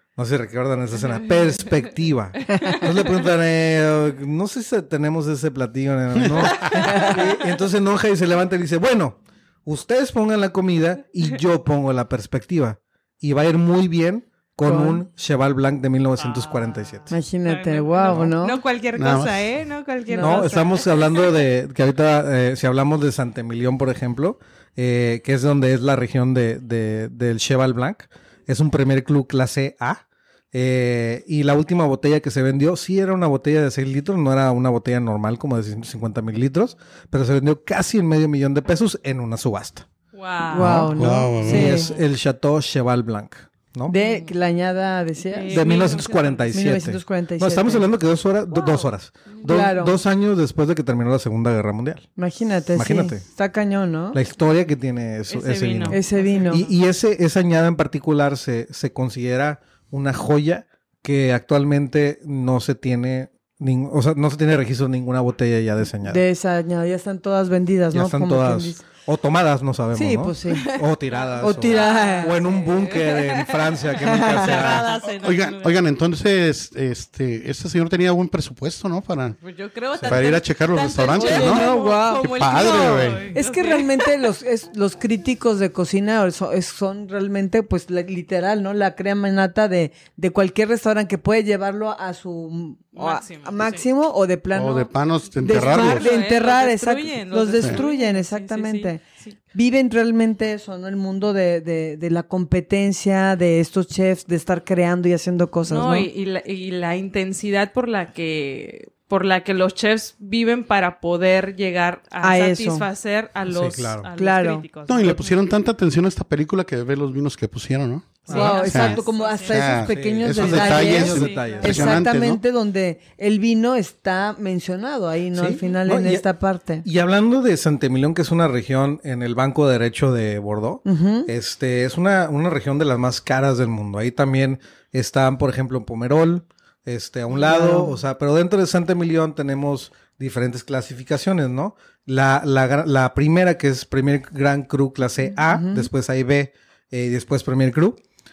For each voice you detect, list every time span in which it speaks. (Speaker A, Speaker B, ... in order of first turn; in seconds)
Speaker A: 0.2-17.2, 18.1-18.3, 20.2-30.0, 30.5-39.9, 40.5-44.0, 45.5-52.1, 52.7-53.2, 54.1-66.2, 67.9-74.9, 113.5-114.1, 118.3-118.7, 119.8-122.0, 125.3-126.2, 126.8-148.0
Speaker B: 1.0-1.8, 2.6-2.9, 6.6-7.2, 16.2-21.4, 40.1-40.9, 43.9-44.3, 45.3-46.6, 48.5-49.7, 55.3-56.8, 70.5-75.8, 79.4-84.3, 93.0-93.9, 95.4-99.3, 105.7-115.3, 118.3-119.7, 120.7-121.9
Speaker C: 6.2-6.5, 19.0-19.5, 41.0-41.8, 75.2-79.4, 80.0-81.7, 82.4-83.3, 94.5-96.1, 114.9-122.4
Speaker D: 6.7-7.2, 14.7-15.0, 17.1-18.6, 20.1-20.5, 40.5-41.9, 43.9-47.8, 49.5-50.0, 52.2-54.2, 55.9-56.6, 66.0-68.8, 70.0-70.7, 71.4-72.4, 74.0-74.8, 81.1-82.3, 83.3-94.9, 95.4-99.0, 99.5-106.1, 112.2-112.9, 114.2-114.7, 118.3-126.8, 130.9-131.3, 137.3-137.9, 145.5-145.9